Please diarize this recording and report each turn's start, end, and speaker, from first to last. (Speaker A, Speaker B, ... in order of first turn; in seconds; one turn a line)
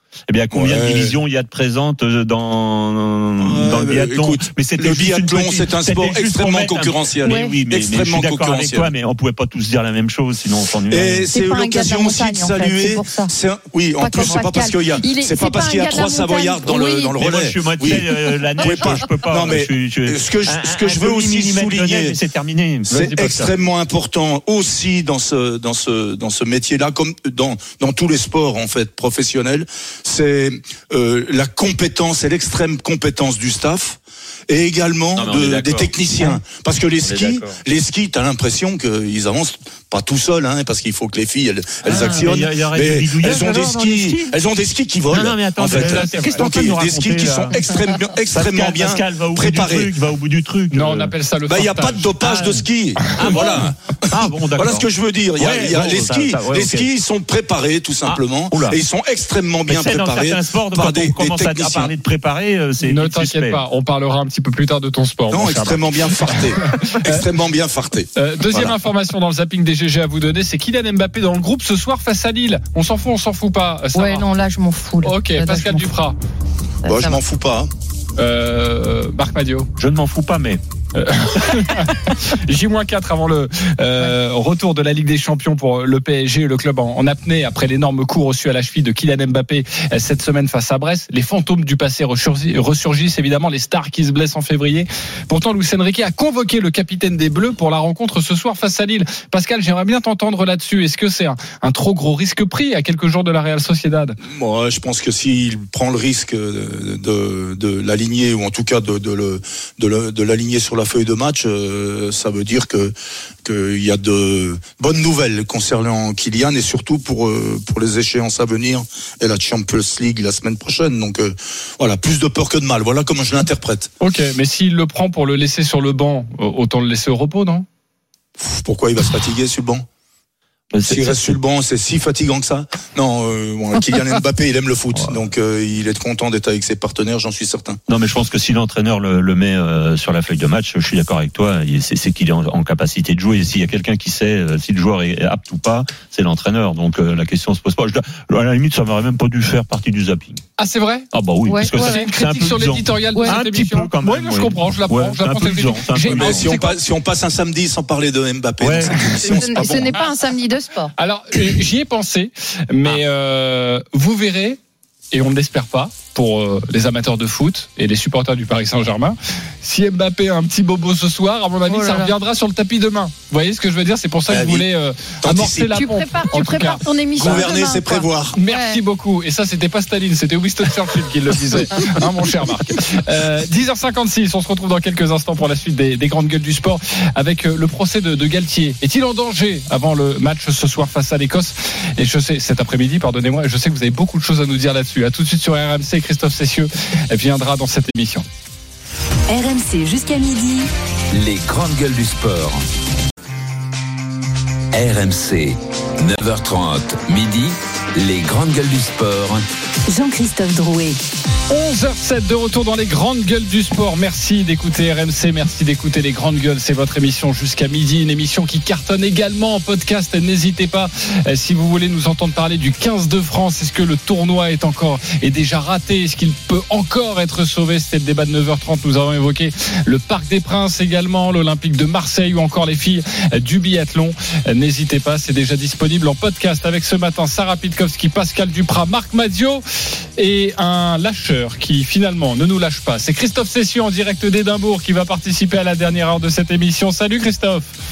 Speaker A: 0.3-11.3
Speaker B: 0.5-1.1
Speaker B: 3.4-8.9
Speaker C: 7.3-7.6
Speaker B: 10.9-22.2
Speaker C: 11.3-13.3
Speaker C: 14.0-17.2
Speaker A: 17.2-23.5
Speaker B: 22.9-49.9
Speaker A: 35.2-36.4
Speaker A: 37.0-37.6
Speaker A: 41.8-44.3
Speaker A: 45.1-47.6
Speaker D: 45.8-46.7
Speaker A: 48.3-51.1
Speaker D: 50.7-52.3
Speaker B: 51.5-61.9
Speaker A: 52.2-52.6
Speaker A: 53.1-56.9
Speaker D: 53.2-53.5
Speaker A: 58.0-58.8
Speaker A: 59.7-63.6
Speaker D: 62.8-65.8
Speaker B: 65.3-68.7
Speaker D: 68.2-74.3
Speaker C: 74.0-75.9
Speaker D: 75.0-76.2
Speaker C: 76.8-77.2
Speaker B: 76.8-77.7
Speaker D: 78.2-79.7
Speaker A: 79.8-80.6
Speaker D: 81.0-104.2
Speaker B: 104.2-112.9
Speaker B: 113.5-123.9
Speaker D: 124.0-127.7
Speaker B: 128.4-129.8
Speaker A: 130.7-131.3
Speaker B: 130.9-137.8
Speaker A: 134.9-135.2
Speaker A: 137.9-150.4
Speaker D: 150.6-151.1
Speaker A: 151.1-156.5
Speaker C: 151.5-152.1
Speaker D: 151.7-156.7
Speaker B: 156.1-160.0
Speaker A: 158.6-159.6
Speaker C: 159.1-160.9
Speaker D: 161.0-164.6
Speaker D: 165.1-177.4
Speaker C: 171.7-172.1
Speaker B: 174.3-174.6
Speaker B: 175.2-175.9
Speaker C: 175.7-178.8
Speaker B: 177.2-178.3
Speaker D: 178.3-198.2
Speaker E: 199.3-200.7
Speaker F: 201.1-202.6
Speaker F: 204.7-209.4
Speaker E: 209.9-211.0
Speaker D: 211.5-239.6
Speaker D: 240.2-247.7